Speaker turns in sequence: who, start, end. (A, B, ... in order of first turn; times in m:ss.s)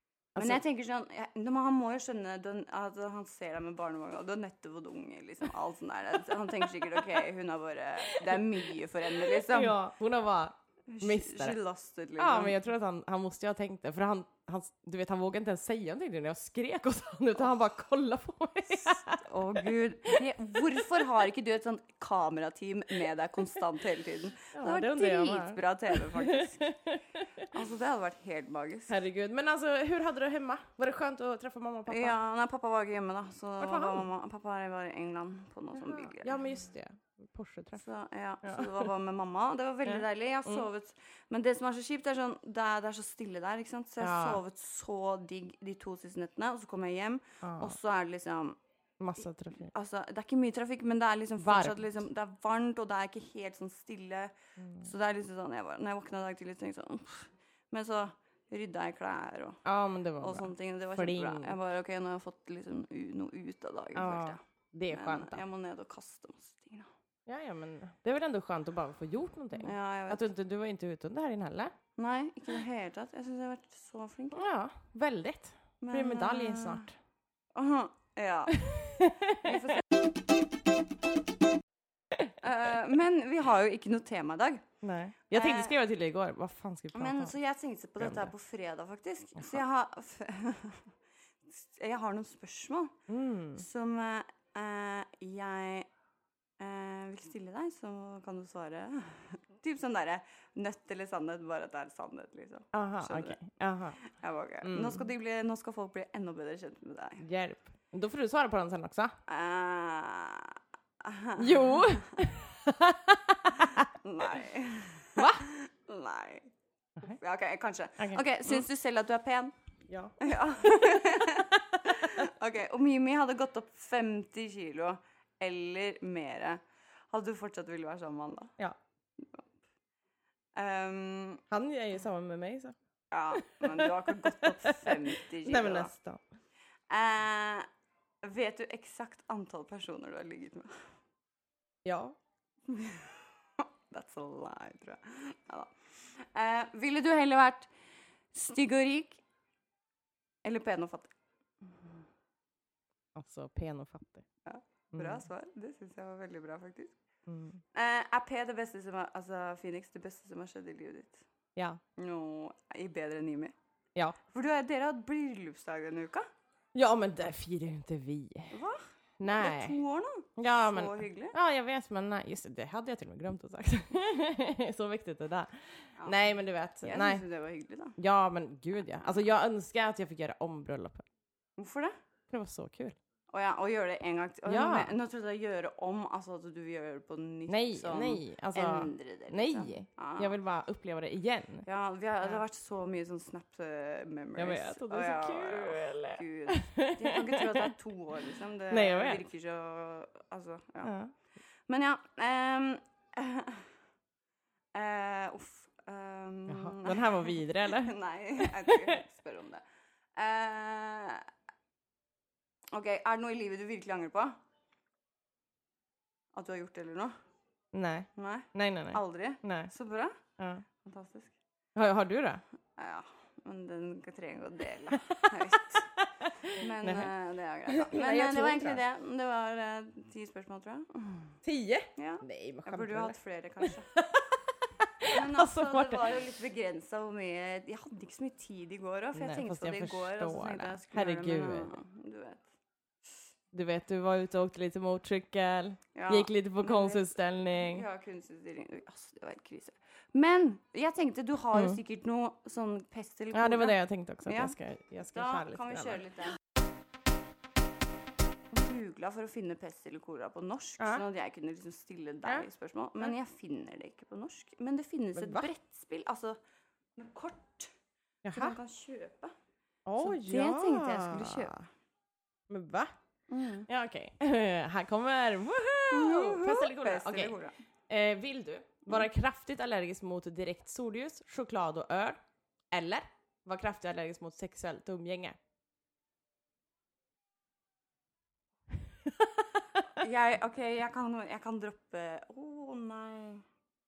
0:00.3-0:00.6 A
0:00.4-0:09.8 B
0:09.2-0:11.6 A
0:10.9-0:12.6 B
0:12.2-0:19.2 A
0:19.2-0:26.7 B
0:24.5-0:27.4 A
0:27.4-0:29.0 B
0:28.9-0:32.2 A
0:31.9-0:36.4 B
0:33.6-0:34.1 A
0:35.8-0:37.8 A
0:37.8-0:48.6 B
0:38.4-0:38.9 A
0:39.8-0:40.6 A
0:44.0-0:44.4 A
0:47.4-0:47.7 A
0:49.0-0:49.7 A
0:49.6-0:59.6 B
0:51.4-0:51.8 A
0:54.6-0:54.8 A
0:59.6-1:01.6 A
1:00.2-1:06.9 B
1:03.9-1:05.4 A
1:07.3-1:11.7 A
1:09.6-1:10.3 B
1:12.0-1:14.4 B
1:14.3-1:16.9 A
1:15.8-1:16.9 B
1:17.5-1:19.8 B
1:18.6-1:19.7 A
1:22.4-1:24.6 B
1:24.8-1:27.3 A
1:25.3-1:25.8 B
1:26.9-1:30.9 B
1:28.0-1:28.3 A
1:31.4-1:33.0 B
1:33.1-1:33.6 A
1:33.5-1:35.9 B
1:36.6-1:43.4 B
1:42.7-1:44.0 A
1:44.0-1:47.2 B
1:44.6-1:45.0 A
1:47.2-1:49.2 A
1:49.3-1:52.2 B
1:51.4-1:53.9 A
1:53.6-1:56.5 B
1:55.2-1:55.5 A
1:57.0-1:59.5 B
1:58.0-1:58.6 A
1:59.9-2:00.2 A
2:00.2-2:08.5 B
2:09.2-2:09.4 B
2:10.6-2:11.4 B
2:11.5-2:12.8 A
2:13.1-2:15.9 B
2:13.3-2:16.2 A
2:16.9-2:17.7 B
2:18.2-2:20.8 B
2:21.8-2:22.2 A
2:22.7-2:27.7 B
2:28.3-2:29.2 B
2:30.4-2:31.1 B
2:33.1-2:34.2 A
2:34.4-2:36.9 B
2:34.9-2:35.2 A
2:37.3-2:37.6 A
2:37.7-2:41.2 B
2:41.6-2:41.8 A
2:42.0-2:43.5 B
2:44.3-2:46.2 B
2:46.7-2:48.5 A
2:48.5-2:51.4 B
2:49.2-2:49.8 A
2:50.4-2:55.5 A
2:56.0-2:57.2 A
2:56.8-2:58.0 B
2:58.0-3:01.0 A
3:01.6-3:01.9 B
3:02.3-3:03.0 A
3:03.3-3:10.3 B
3:04.4-3:04.9 A
3:07.5-3:11.6 A
3:11.6-3:20.9 B
3:14.4-3:17.7 A
3:18.7-3:19.2 A
3:20.8-3:21.1 A
3:21.7-3:23.6 B
3:24.7-3:29.6 B
3:26.5-3:29.0 A
3:30.2-3:31.3 B
3:32.7-3:34.4 B
3:36.3-3:37.1 B
3:37.7-3:39.7 A
3:38.2-3:40.2 B
3:40.4-3:40.6 A
3:40.8-3:41.4 B
3:41.8-3:42.4 A
3:42.8-3:45.9 B
3:44.9-3:45.4 A
3:46.0-3:47.1 A
3:46.5-3:51.4 B
3:47.7-3:48.8 A
3:51.4-3:56.1 A
3:52.0-3:53.9 B
3:55.1-4:02.4 B
3:59.1-4:01.8 A
4:03.5-4:07.8 A
4:05.9-4:14.6 B
4:11.5-4:11.8 A
4:13.3-4:16.0 A
4:15.1-4:16.4 B
4:18.5-4:26.4 B
4:25.2-4:25.5 A
4:27.0-4:27.7 B
4:28.2-4:28.6 A
4:28.3-4:29.3 B
4:29.8-4:31.6 A
4:30.0-4:31.6 B
4:32.5-4:32.9 A
4:33.3-4:33.7 B
4:33.7-4:37.4 A
4:35.9-4:37.6 B
4:37.9-4:42.2 A
4:42.7-4:45.4 A
4:50.0-4:53.4 B